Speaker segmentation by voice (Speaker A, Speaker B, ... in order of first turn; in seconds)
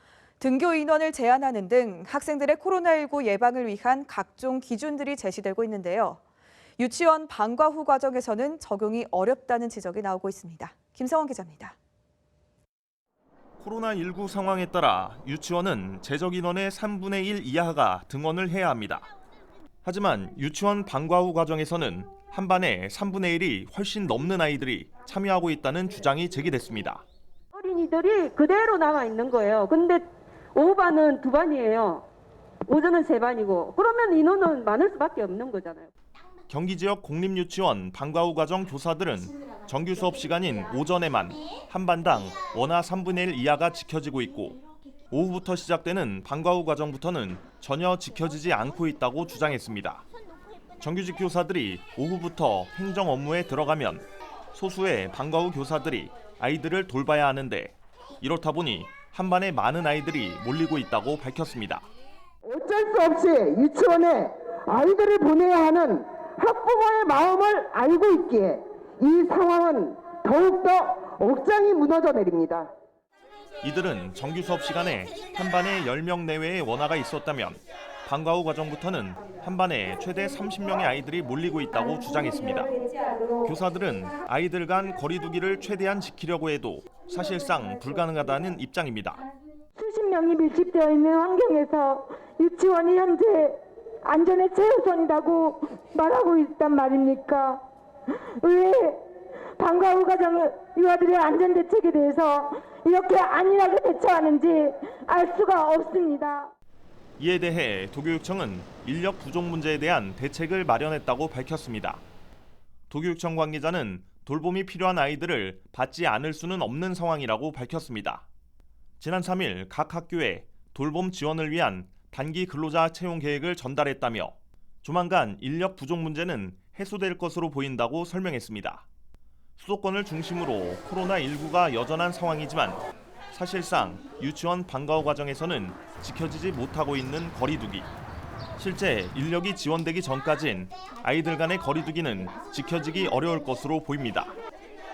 Speaker A: 0.4-6.2, 6.8-11.8
Speaker B: 13.6-19.1, 19.8-27.0, 36.5-44.6, 45.1-50.0, 50.8-61.8, 73.6-82.7, 83.4-89.2, 107.2-112.0, 112.9-118.3, 119.0-128.8, 129.6-132.8, 133.3-137.9, 138.6-144.3
Speaker C: 27.5-32.0, 32.7-35.9
Speaker D: 62.4-72.7
Speaker E: 82.8-83.4, 89.8-97.6, 98.4-99.0, 99.6-106.5